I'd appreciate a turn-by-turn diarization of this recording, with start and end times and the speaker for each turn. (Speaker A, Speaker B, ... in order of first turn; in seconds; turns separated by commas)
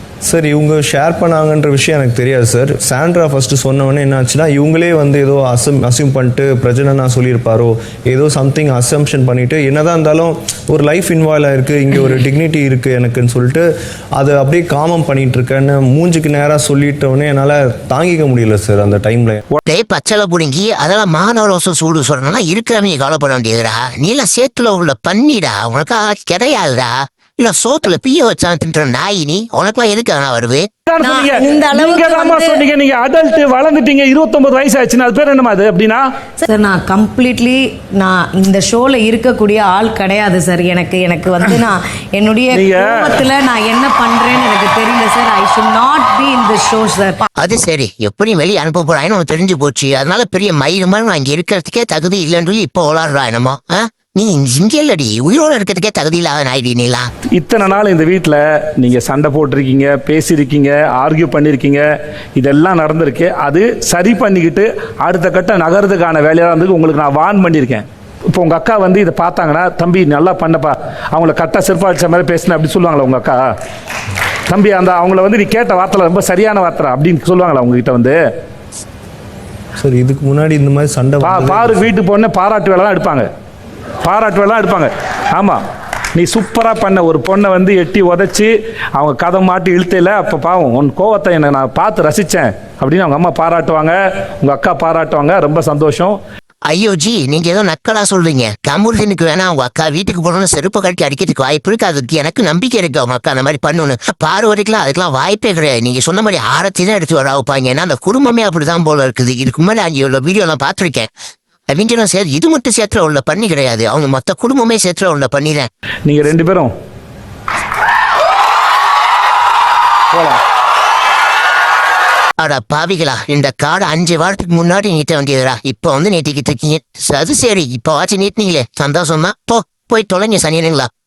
Speaker A: 0.2-13.7, Speaker A: 14.2-19.4, Speaker B: 19.7-30.7, Speaker C: 30.9-36.0, Speaker D: 31.0-32.6, Speaker D: 36.4-47.2, Speaker C: 42.5-43.1, Speaker B: 47.4-57.1, Speaker C: 57.3-61.8, Speaker C: 62.4-73.4, Speaker C: 74.5-78.2, Speaker A: 79.8-81.9, Speaker C: 81.2-83.3, Speaker C: 84.0-85.6, Speaker C: 86.1-96.2, Speaker B: 96.7-111.1, Speaker B: 111.7-115.7, Speaker C: 116.0-116.7, Speaker C: 120.1-120.4, Speaker B: 122.4-130.9